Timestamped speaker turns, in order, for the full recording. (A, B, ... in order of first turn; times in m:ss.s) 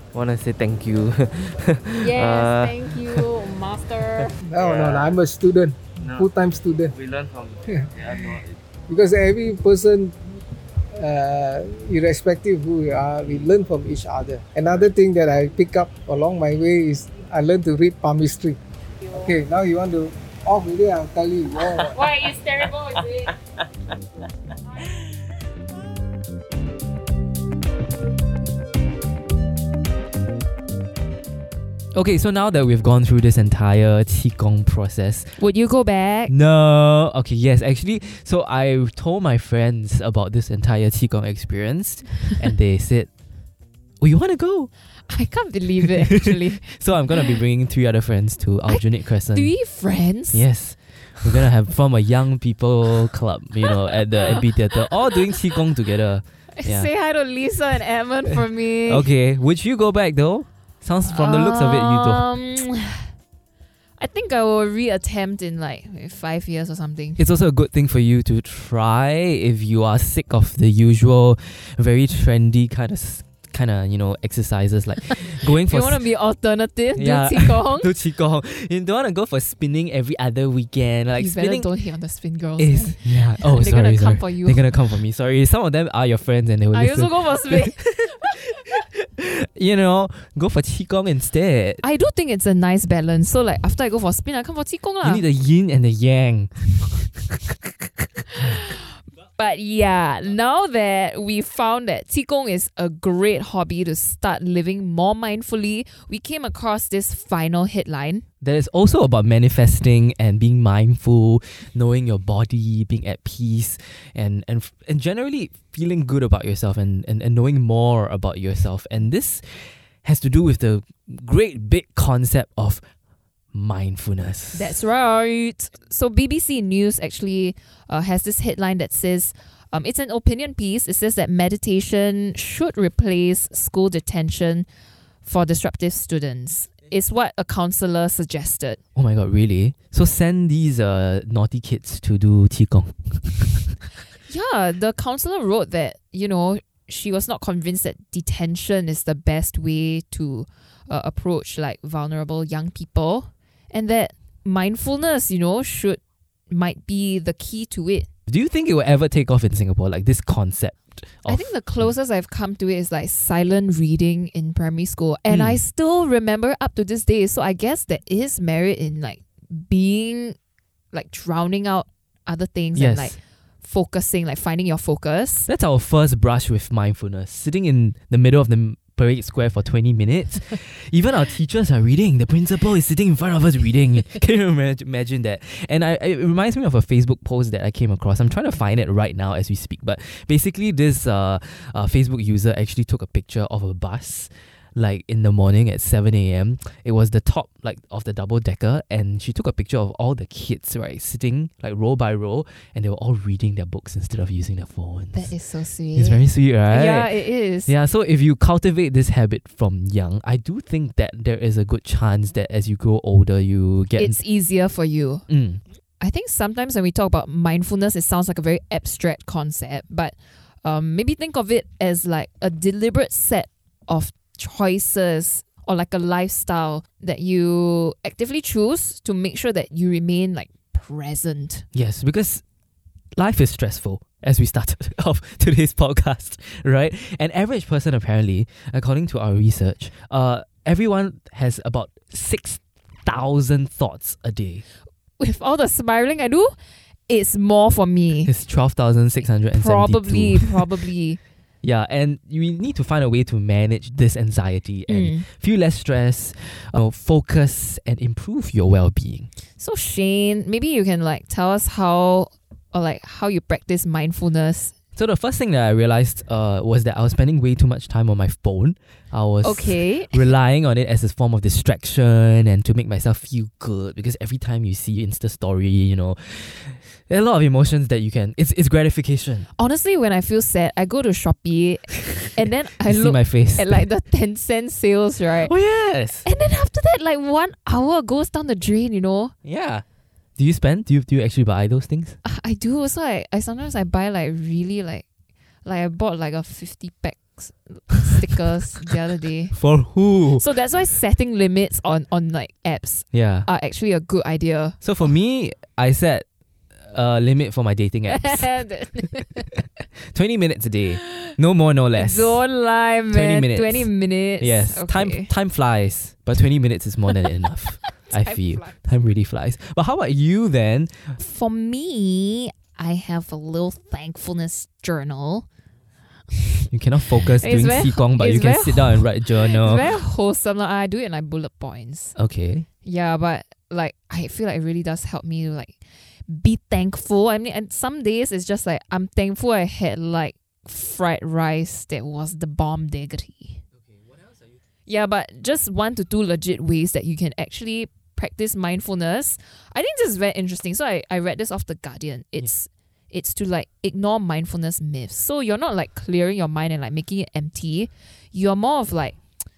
0:00.1-0:03.3 A
0:01.9-0:04.4 B
0:04.4-0:06.9 C
0:04.5-0:05.2 A
0:06.0-0:08.6 A
0:07.7-0:10.2 C
0:10.9-0:18.6 C
0:19.0-0:19.3 B
0:19.1-0:22.0 C
0:21.7-0:23.3 B
0:31.9-0:35.4 D
0:35.4-0:36.3 E
0:36.3-0:43.1 D
0:44.0-0:44.7 D
0:45.1-0:47.4 E
0:45.8-0:49.5 D
0:48.7-0:50.4 E
0:50.3-0:56.9 D
0:53.6-0:55.6 E
0:56.5-0:59.1 E
0:58.3-1:02.2 D
1:01.0-1:03.1 E
1:04.0-1:07.2 E
1:07.2-1:16.0 D
1:15.1-1:17.9 E
1:17.0-1:21.7 D
1:21.2-1:24.6 E
1:22.6-1:31.8 D
1:26.7-1:28.7 E
1:31.8-1:35.2 E
1:35.0-1:37.7 D
1:38.3-1:48.2 E
1:48.4-2:02.8 D
2:03.5-2:04.8 D
2:04.5-2:14.6 E
2:15.2-2:18.8 E
2:18.9-2:23.8 D
2:24.3-2:38.1 E
2:38.3-2:41.9 D
2:41.2-2:50.4 E
2:45.3-2:45.6 D
2:50.9-2:55.5 E
2:52.7-2:53.2 D
2:55.5-3:25.3 D
3:25.1-3:27.7 E
3:25.9-3:27.1 D
3:27.6-3:34.2 D
3:34.0-3:35.2 E
3:35.3-3:35.6 D
3:36.0-3:51.6 E
3:51.7-3:52.4 D
3:53.2-4:04.6 D
4:05.2-4:06.6 E
4:07.1-4:08.3 E
4:08.2-4:10.7 D
4:09.5-4:11.2 E
4:11.6-4:19.3 D
4:14.9-4:15.2 E
4:19.6-4:24.7 E
4:24.9-4:39.5 D
4:29.4-4:30.2 E
4:39.6-4:45.5 E
4:42.0-4:43.9 D
4:45.4-4:46.2 D
4:46.2-4:49.3 E
4:49.4-4:49.8 D
4:50.4-4:52.2 D
4:52.2-4:55.0 E
4:55.6-4:59.6 E
4:59.5-5:00.4 D
5:00.4-5:04.8 E
5:03.1-5:03.5 D
5:04.8-5:06.2 D
5:06.8-5:08.5 D
5:08.1-5:09.6 E
5:09.0-5:12.4 D
5:11.0-5:11.3 E
5:12.0-5:15.3 E
5:13.1-5:13.9 D
5:14.4-5:21.2 D
5:18.0-5:18.8 E
5:21.2-5:25.5 E
5:26.4-5:32.1 E
5:26.7-5:30.0 D
5:32.2-5:32.6 D
5:32.8-5:35.8 E
5:36.3-5:43.6 E
5:44.9-5:59.2 E